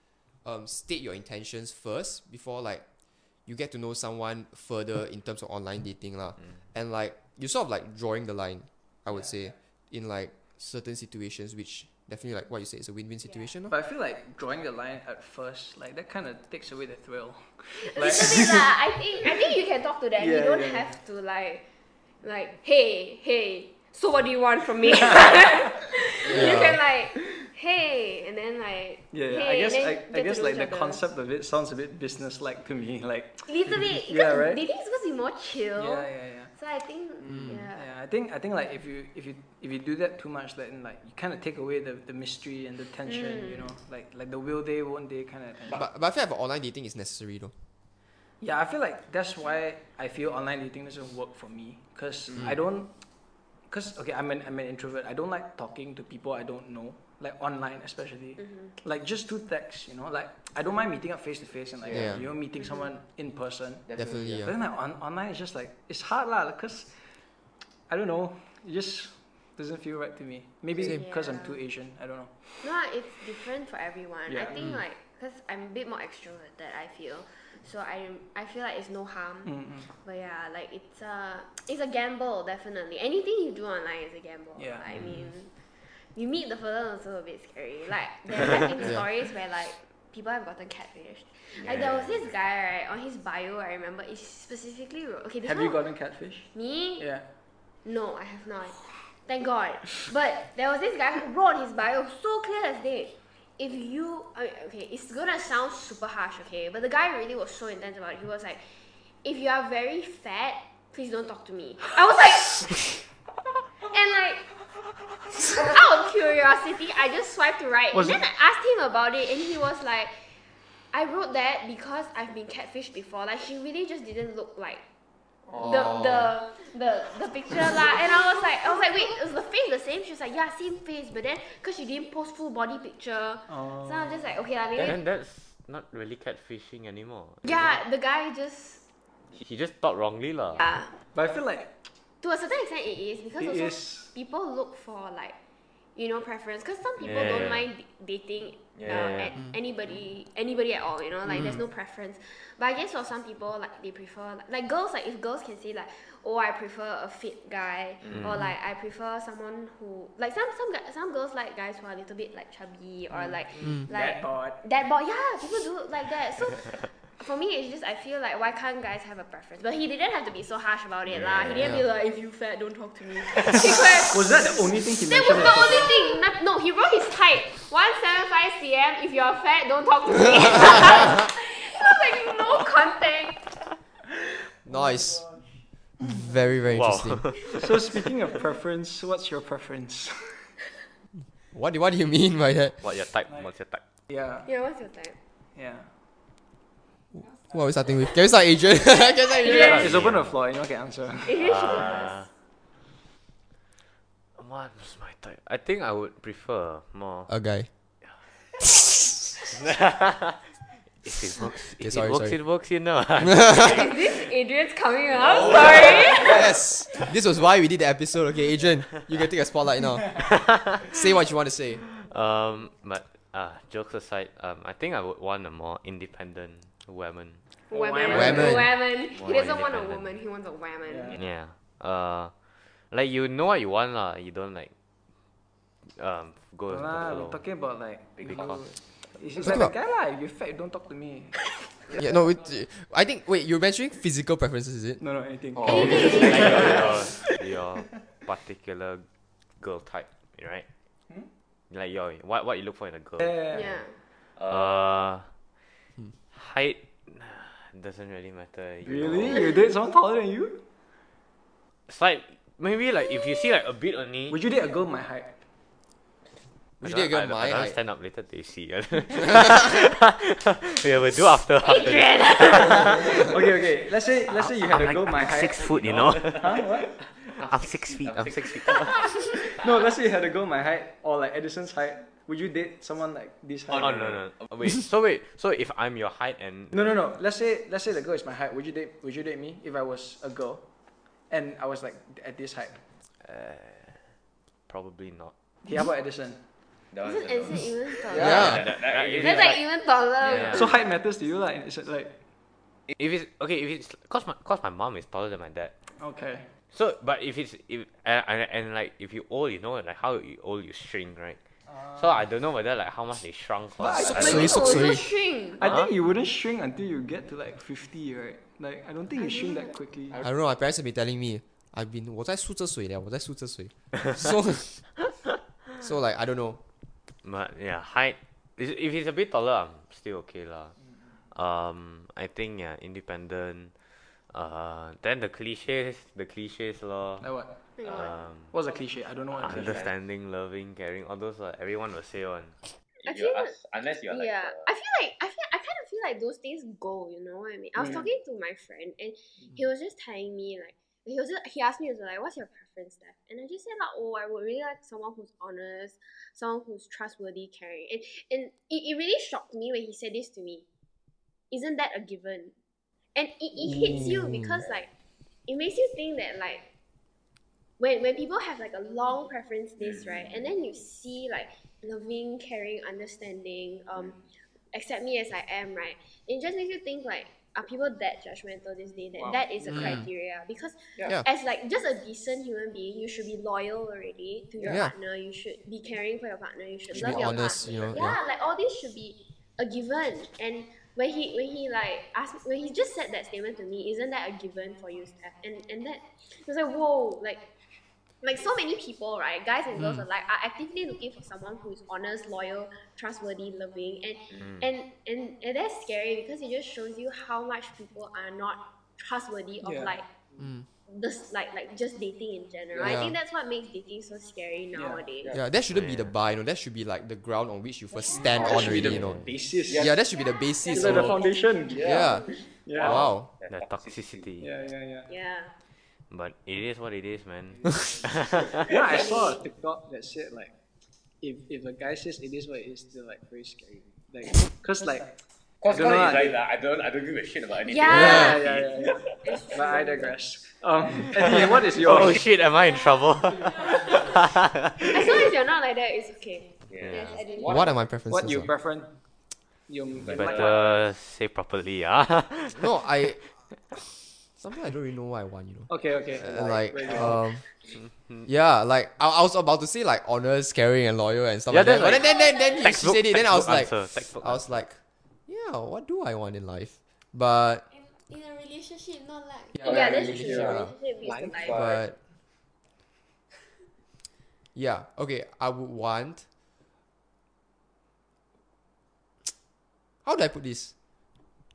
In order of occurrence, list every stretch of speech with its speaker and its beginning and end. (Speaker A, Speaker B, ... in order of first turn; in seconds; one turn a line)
Speaker A: 0.4-2.8
Speaker A: 3.5-13.7
Speaker B: 13.7-18.7
Speaker C: 17.8-21.6
Speaker B: 20.2-20.9
Speaker C: 22.2-31.0
Speaker A: 26.3-26.8
Speaker B: 29.1-34.6
Speaker C: 33.5-37.9
Speaker B: 35.8-36.5
Speaker B: 37.5-45.8
Speaker C: 43.0-43.7
Speaker A: 45.7-47.5
Speaker B: 48.4-52.9
Speaker B: 53.7-67.1
Speaker A: 61.9-62.2
Speaker C: 62.6-62.9
Speaker A: 63.9-64.5
Speaker B: 67.9-72.6
Speaker C: 70.8-71.6
Speaker C: 72.6-95.8
Speaker B: 74.3-74.7
Speaker B: 79.4-79.9
Speaker B: 84.6-85.1
Speaker D: 91.6-92.2
Speaker B: 95.4-97.2
Speaker C: 96.5-97.1
Speaker C: 97.8-108.7
Speaker C: 109.2-113.0
Speaker C: 113.8-114.5
Speaker C: 115.5-120.2
Speaker B: 117.9-118.2
Speaker C: 120.9-124.8
Speaker C: 125.6-135.0
Speaker B: 133.5-134.0
Speaker E: 134.8-137.8
Speaker C: 137.4-138.8
Speaker E: 139.4-140.6
Speaker C: 140.6-140.9
Speaker B: 141.1-141.7
Speaker C: 142.2-145.3
Speaker B: 143.4-144.1
Speaker C: 145.9-183.5
Speaker D: 147.0-147.6
Speaker E: 147.2-147.5
Speaker D: 148.8-149.3
Speaker D: 158.0-158.4
Speaker B: 163.6-164.6
Speaker E: 171.3-171.6
Speaker B: 174.1-175.9
Speaker A: 184.7-185.3
Speaker B: 184.7-185.4
Speaker A: 186.0-187.3
Speaker E: 186.7-187.7
Speaker B: 187.5-190.5
Speaker A: 191.5-192.8
Speaker E: 192.8-193.8
Speaker B: 194.1-194.5
Speaker C: 194.4-195.2
Speaker B: 195.5-195.9
Speaker A: 197.1-200.0
Speaker C: 199.4-200.0
Speaker E: 199.4-200.3
Speaker B: 199.4-201.7
Speaker C: 201.2-202.2
Speaker E: 201.4-202.3
Speaker E: 204.4-207.3
Speaker A: 207.3-207.7
Speaker E: 209.5-210.4
Speaker E: 211.0-213.9
Speaker A: 211.8-212.4
Speaker A: 213.3-213.8
Speaker C: 213.6-216.6
Speaker D: 215.2-216.2
Speaker A: 216.2-221.8
Speaker E: 220.2-221.1
Speaker E: 222.0-227.4
Speaker C: 227.7-231.1
Speaker B: 227.7-228.6
Speaker A: 228.1-228.7
Speaker E: 229.1-230.1
Speaker B: 230.9-231.2
Speaker E: 231.1-232.3
Speaker E: 232.9-234.7
Speaker E: 236.0-237.4
Speaker B: 236.7-242.0
Speaker D: 238.2-238.7
Speaker E: 238.2-238.6
Speaker A: 239.4-239.7
Speaker A: 242.0-245.0
Speaker B: 245.0-247.4
Speaker C: 245.6-246.9
Speaker D: 245.8-247.1
Speaker E: 246.1-249.1
Speaker E: 249.6-250.7
Speaker E: 251.7-253.3
Speaker B: 253.2-253.7
Speaker C: 253.5-253.9
Speaker D: 254.4-255.0
Speaker E: 254.5-255.3
Speaker E: 256.3-259.5
Speaker B: 258.8-260.6
Speaker E: 261.9-264.4
Speaker B: 264.3-265.4
Speaker A: 266.8-267.8
Speaker E: 266.8-273.3
Speaker C: 271.6-273.3
Speaker B: 272.7-275.7
Speaker E: 274.4-276.6
Speaker D: 275.5-279.2
Speaker B: 276.3-277.0
Speaker E: 277.4-279.3
Speaker B: 279.6-284.2
Speaker D: 283.7-284.5
Speaker E: 283.8-286.9
Speaker B: 286.7-290.6
Speaker B: 291.3-292.8
Speaker E: 293.2-294.1
Speaker E: 294.7-295.3
Speaker B: 295.6-296.4
Speaker D: 296.9-299.6
Speaker C: 297.0-298.7
Speaker A: 298.1-298.6
Speaker E: 298.2-299.6
Speaker C: 299.2-300.7
Speaker E: 300.2-300.7
Speaker B: 300.5-302.2
Speaker E: 302.9-305.7
Speaker B: 305.9-306.5
Speaker E: 306.7-314.6
Speaker B: 311.7-312.0
Speaker B: 313.8-320.2
Speaker A: 313.9-315.0
Speaker C: 314.1-315.6
Speaker E: 315.6-315.9
Speaker C: 319.2-319.7
Speaker A: 320.2-324.9
Speaker A: 325.8-326.6
Speaker E: 327.2-330.8
Speaker E: 331.3-333.7
Speaker E: 334.3-337.3
Speaker B: 337.2-337.6
Speaker C: 337.8-338.2
Speaker E: 337.8-338.5
Speaker B: 338.5-339.9
Speaker E: 339.4-342.6
Speaker D: 339.4-339.9
Speaker D: 343.0-344.7
Speaker C: 343.0-343.6
Speaker C: 344.1-360.6
Speaker C: 361.5-362.5
Speaker C: 363.1-364.9
Speaker A: 363.7-364.6
Speaker C: 365.5-366.6
Speaker C: 367.8-374.2
Speaker C: 374.7-397.4
Speaker A: 379.6-380.1
Speaker A: 384.6-384.9
Speaker A: 386.9-388.2
Speaker C: 398.2-410.1
Speaker B: 409.6-409.9
Speaker A: 410.4-410.6
Speaker C: 410.9-415.4
Speaker A: 412.8-413.1
Speaker B: 414.7-415.0
Speaker A: 415.3-421.2
Speaker E: 415.7-416.1
Speaker B: 418.1-419.9
Speaker D: 418.4-418.7
Speaker E: 418.8-419.3
Speaker C: 420.6-421.7
Speaker B: 420.7-422.0
Speaker D: 421.7-424.4
Speaker A: 421.8-423.3
Speaker B: 422.6-423.1
Speaker E: 423.5-424.5
Speaker B: 424.4-425.1
Speaker C: 425.1-425.5
Speaker E: 426.1-428.7
Speaker D: 428.6-429.3
Speaker B: 428.6-430.5
Speaker C: 428.9-429.3
Speaker B: 431.2-435.2
Speaker D: 435.6-439.4
Speaker B: 435.7-436.4
Speaker C: 437.6-438.5
Speaker B: 437.9-442.2
Speaker A: 437.9-438.3
Speaker C: 439.2-440.1
Speaker D: 441.2-442.1
Speaker E: 441.4-445.0
Speaker C: 444.8-447.7
Speaker D: 446.7-447.8
Speaker E: 446.8-447.1
Speaker A: 447.4-448.5
Speaker B: 448.1-448.9
Speaker B: 449.7-450.6
Speaker D: 450.0-450.8
Speaker E: 450.1-452.8
Speaker A: 452.6-457.4
Speaker B: 455.7-457.2
Speaker E: 457.8-458.2
Speaker A: 458.2-467.6
Speaker E: 461.5-464.4
Speaker C: 461.8-462.6
Speaker C: 467.7-471.7
Speaker D: 469.7-470.5
Speaker A: 469.7-470.7
Speaker B: 471.0-471.4
Speaker A: 471.5-471.9
Speaker A: 474.5-476.2
Speaker A: 480.0-480.7